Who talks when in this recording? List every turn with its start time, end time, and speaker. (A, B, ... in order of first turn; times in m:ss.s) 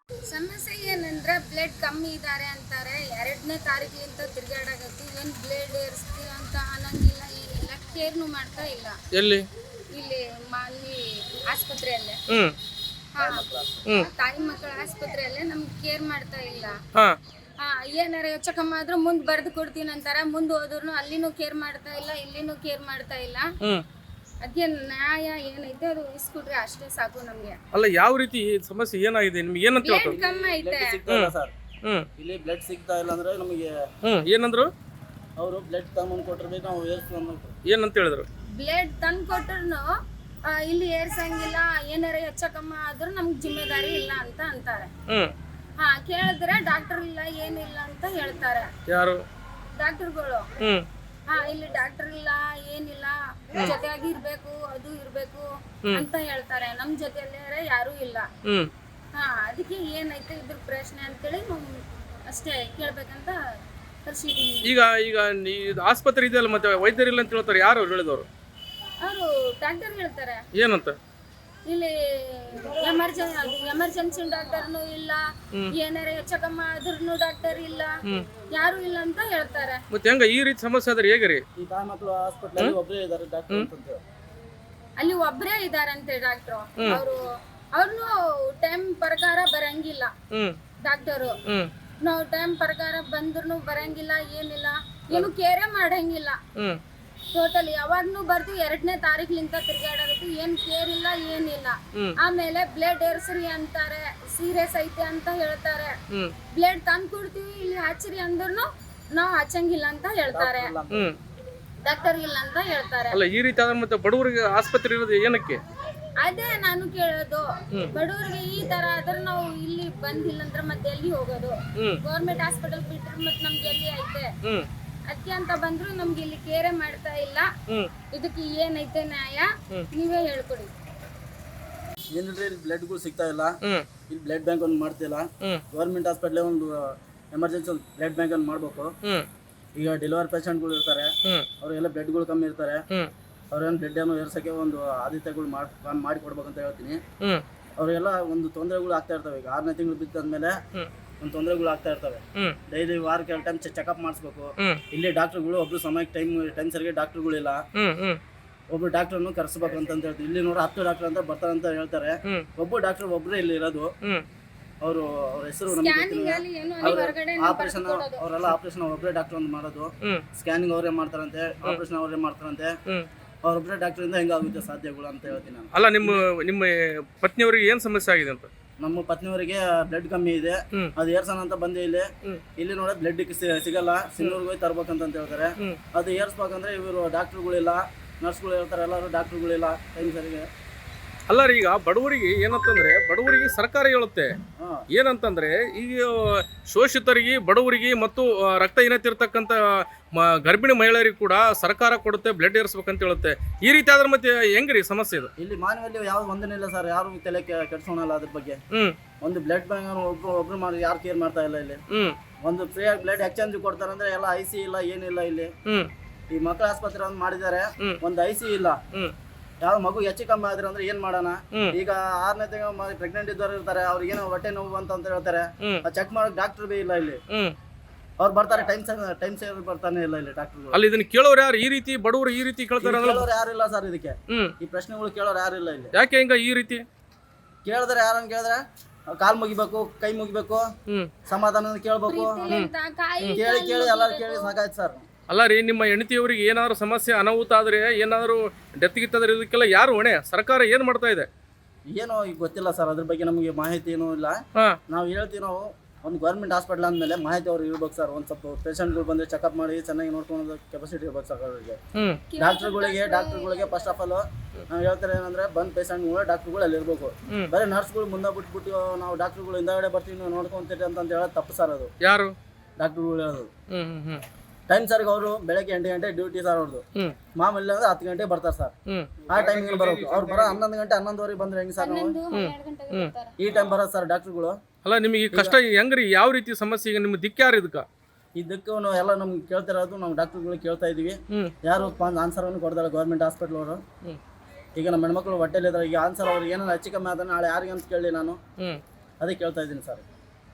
0:00.3-0:08.9 A
0:09.1-0:09.4 B
0:09.9-0:12.2 A
0:12.3-0:12.6 B
0:13.1-0:13.4 A
0:13.2-0:13.9 C
0:14.0-0:16.7 A
0:17.6-0:23.5 A
0:24.4-0:27.6 A
0:27.7-0:30.2 B
0:29.8-0:31.0 A
0:30.2-0:31.5 C
0:32.2-0:33.7 C
0:34.0-0:34.7 B
0:35.4-0:37.5 C
0:37.7-0:38.2 B
0:38.6-0:39.9 A
0:40.5-0:44.9 A
0:45.8-0:48.7 A
0:48.9-0:49.2 B
0:49.8-0:50.5 A
0:50.6-0:50.8 B
0:51.3-0:58.3 A
0:58.4-0:58.7 B
0:59.1-1:01.6 A
1:02.3-1:03.4 A
1:04.0-1:04.7 A
1:04.6-1:08.3 B
1:09.0-1:10.4 A
1:10.5-1:11.0 B
1:11.6-1:15.2 A
1:15.7-1:17.9 A
1:18.5-1:19.8 A
1:19.9-1:21.4 B
1:21.6-1:24.0 C
1:25.0-1:27.2 A
1:27.8-1:30.1 A
1:30.3-1:30.6 B
1:30.8-1:31.3 A
1:32.0-1:36.4 A
1:37.3-1:45.9 A
1:46.5-1:50.7 A
1:50.3-1:51.1 C
1:51.8-1:53.2 A
1:53.1-1:55.6 B
1:56.2-2:04.3 A
2:05.1-2:07.5 A
2:08.1-2:10.7 A
2:12.1-2:13.6 C
2:14.1-2:18.9 C
2:19.8-2:22.8 C
2:23.5-2:27.0 C
2:27.8-2:30.6 C
2:31.2-2:37.6 C
2:37.8-2:38.2 B
2:38.7-2:43.9 C
2:44.8-2:52.8 C
2:45.7-2:48.2 A
2:53.4-2:56.1 C
2:55.7-2:58.5 B
2:58.8-3:10.5 C
3:11.3-3:14.3 B
3:14.6-3:14.8 C
3:14.9-3:25.3 B
3:25.4-3:28.6 C
3:29.2-3:31.8 C
3:31.9-3:32.2 B
3:32.4-3:35.5 C
3:36.3-3:38.8 C
3:39.6-3:47.2 C
3:48.2-3:50.8 C
3:50.7-3:53.3 B
3:52.8-3:55.9 C
3:55.9-3:56.8 B
3:57.6-4:00.7 C
4:01.3-4:02.5 C
4:02.1-4:04.5 A
4:03.3-4:05.0 C
4:05.3-4:11.3 B
4:11.9-4:21.8 C
4:21.9-4:22.2 B
4:22.3-4:24.0 A
4:22.4-4:31.9 C
4:32.0-4:32.3 B
4:32.8-4:33.5 C
4:33.7-4:34.2 B
4:34.7-4:36.8 C
4:37.4-4:38.7 C
4:38.9-4:40.6 B
4:39.3-4:42.2 C
4:41.8-4:43.3 A
4:42.3-4:43.1 B
4:43.4-4:44.6 C
4:44.8-4:47.8 B
4:48.4-4:53.8 C
4:54.8-4:58.4 C
4:59.2-5:00.0 C